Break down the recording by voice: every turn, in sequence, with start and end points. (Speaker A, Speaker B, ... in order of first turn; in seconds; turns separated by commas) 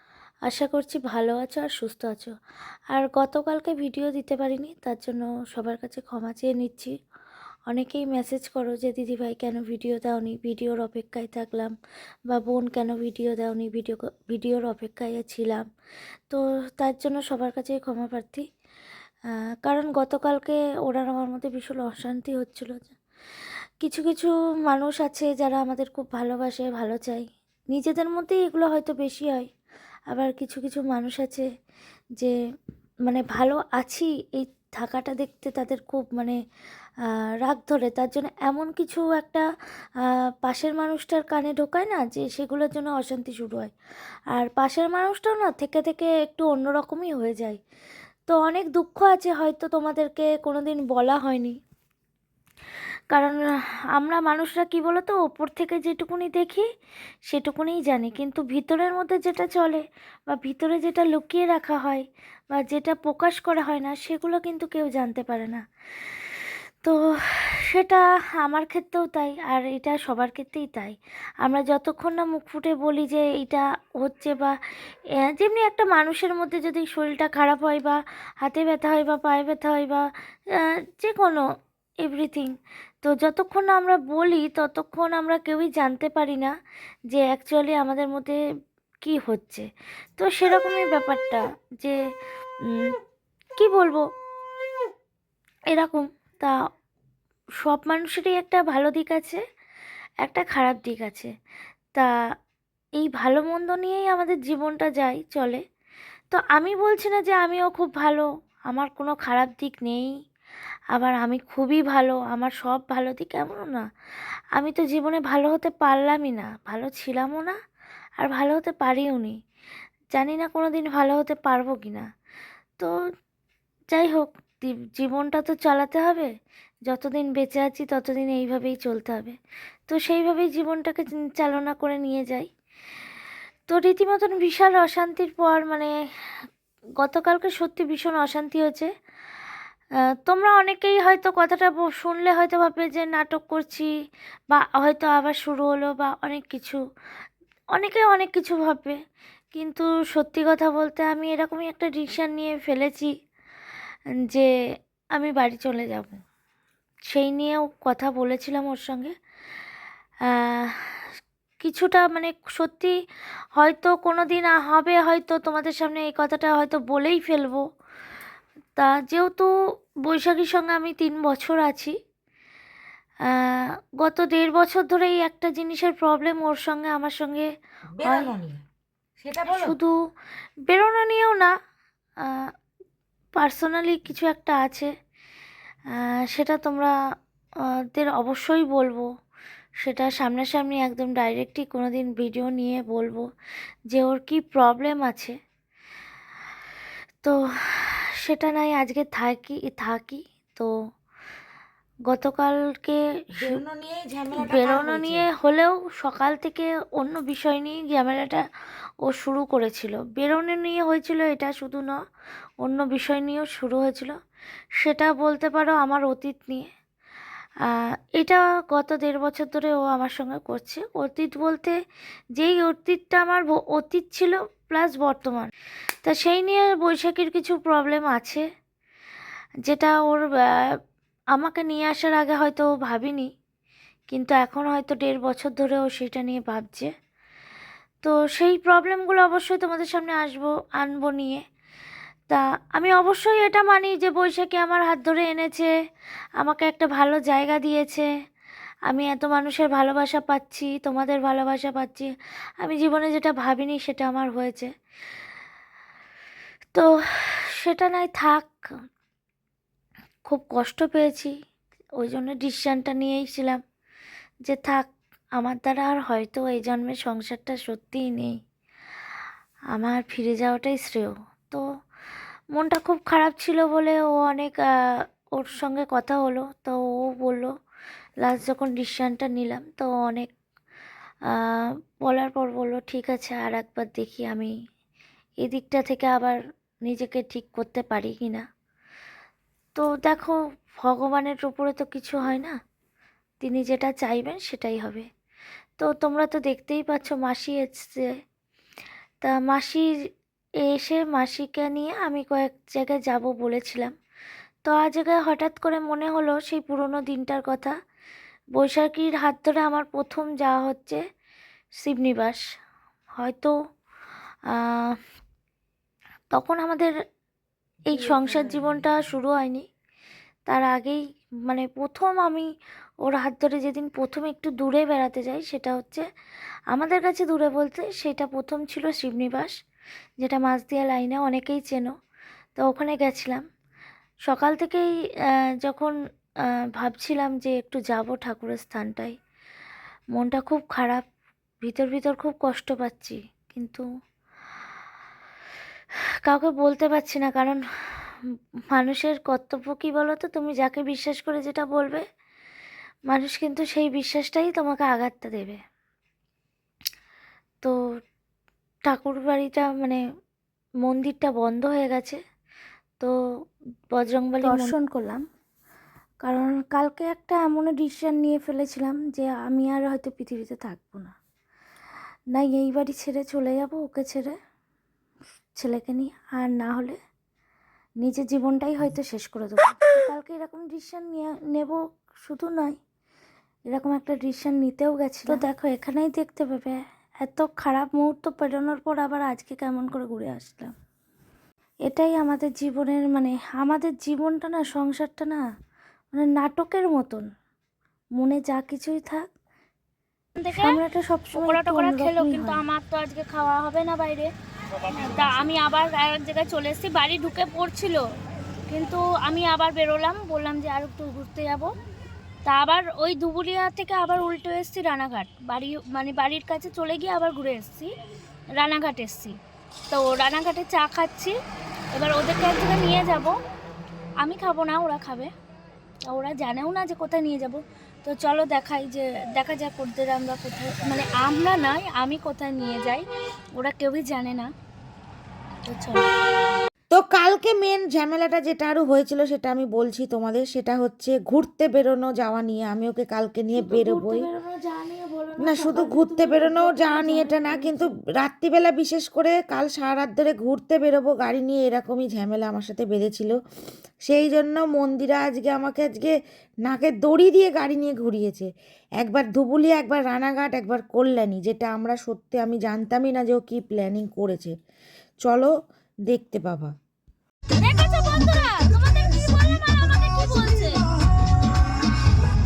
Speaker A: 0.5-2.3, Speaker A: 2.9-6.9, Speaker A: 7.7-11.7, Speaker A: 12.3-15.6, Speaker A: 16.3-18.5, Speaker A: 19.6-22.9, Speaker A: 23.8-29.5, Speaker A: 30.1-31.5, Speaker A: 33.0-36.4, Speaker A: 37.1-39.4, Speaker A: 40.4-43.7, Speaker A: 44.3-47.6, Speaker A: 48.3-51.6, Speaker A: 53.1-53.4, Speaker A: 53.9-56.6, Speaker A: 57.3-65.6, Speaker A: 67.7-74.6, Speaker A: 75.2-81.4, Speaker A: 82.0-82.5, Speaker A: 83.0-86.5, Speaker A: 87.1-88.4, Speaker A: 89.0-92.0, Speaker A: 92.7-92.9, Speaker A: 93.5-94.0, Speaker A: 95.7-96.5, Speaker A: 97.6-99.4, Speaker A: 100.2-101.3, Speaker A: 103.0-105.6, Speaker A: 106.3-110.1, Speaker A: 110.9-113.8, Speaker A: 114.5-117.5, Speaker A: 118.2-119.3, Speaker A: 120.1-122.0, Speaker A: 123.9-126.3, Speaker A: 126.9-129.4, Speaker A: 129.9-132.5, Speaker A: 133.7-135.9, Speaker A: 137.0-138.9, Speaker A: 140.2-143.9, Speaker A: 144.5-146.8, Speaker A: 147.8-148.9, Speaker A: 149.5-153.1, Speaker A: 155.2-156.2, Speaker A: 157.1-159.1, Speaker A: 160.4-160.8, Speaker A: 161.6-162.9, Speaker A: 163.6-167.6, Speaker A: 168.8-169.5, Speaker A: 170.1-171.9, Speaker A: 173.3-177.5, Speaker B: 177.9-178.6, Speaker A: 178.0-178.3, Speaker B: 179.2-179.7, Speaker A: 179.5-179.9, Speaker A: 180.7-181.5, Speaker A: 183.4-184.9, Speaker A: 185.9-186.9, Speaker A: 187.9-189.1, Speaker A: 189.8-193.2, Speaker A: 193.9-195.3, Speaker A: 197.2-200.7, Speaker A: 202.1-203.0, Speaker B: 203.4-205.3, Speaker A: 204.4-208.4, Speaker A: 209.0-211.9, Speaker A: 212.6-214.1, Speaker A: 214.8-216.7, Speaker A: 217.7-221.7, Speaker A: 222.4-225.5, Speaker A: 226.0-228.4, Speaker A: 229.7-230.3, Speaker A: 231.3-233.3, Speaker A: 234.1-236.9, Speaker A: 238.0-241.4, Speaker A: 242.3-245.7, Speaker A: 246.4-248.1, Speaker A: 248.9-252.1, Speaker A: 252.6-254.7, Speaker A: 256.7-258.5, Speaker A: 260.2-261.3, Speaker A: 262.0-263.6, Speaker A: 264.5-268.3, Speaker A: 269.7-271.6, Speaker A: 272.5-274.6, Speaker A: 275.4-277.5, Speaker A: 278.2-280.3, Speaker A: 281.3-284.5, Speaker A: 285.4-288.4, Speaker A: 289.8-292.5, Speaker A: 293.4-295.1, Speaker A: 295.8-298.1, Speaker A: 299.2-299.9, Speaker A: 300.7-303.9, Speaker A: 304.6-307.7, Speaker A: 308.6-311.0, Speaker A: 311.8-312.4, Speaker A: 313.2-313.5, Speaker A: 314.5-315.0, Speaker A: 316.3-316.9, Speaker B: 317.9-319.0, Speaker A: 317.9-319.6, Speaker A: 320.5-322.5, Speaker A: 323.0-326.0, Speaker A: 326.7-329.5, Speaker A: 330.2-331.9, Speaker A: 332.6-333.4, Speaker A: 334.3-334.9, Speaker A: 335.6-335.9, Speaker A: 336.8-339.1, Speaker A: 340.1-341.0, Speaker A: 341.6-343.8, Speaker A: 346.2-348.1, Speaker A: 348.7-352.0, Speaker A: 353.1-355.6, Speaker A: 358.9-360.0, Speaker A: 360.8-362.2, Speaker A: 363.9-365.2, Speaker C: 364.4-365.1, Speaker A: 366.2-371.1, Speaker A: 372.3-374.3, Speaker A: 375.6-377.0, Speaker A: 378.0-382.8, Speaker A: 383.7-390.7, Speaker A: 391.9-395.4, Speaker A: 396.1-397.2, Speaker A: 398.1-399.2, Speaker C: 400.4-400.8, Speaker A: 400.6-402.6, Speaker C: 401.3-404.3, Speaker C: 404.9-408.0, Speaker C: 408.7-411.7, Speaker C: 412.4-417.9, Speaker C: 418.5-419.4, Speaker C: 419.9-421.3, Speaker C: 421.9-423.4, Speaker C: 424.2-425.3, Speaker C: 426.1-434.5, Speaker C: 435.6-436.1, Speaker B: 436.9-444.3, Speaker A: 443.5-447.9, Speaker B: 445.4-453.4, Speaker B: 454.0-464.5, Speaker B: 465.2-465.5, Speaker B: 466.1-466.7, Speaker C: 467.6-470.9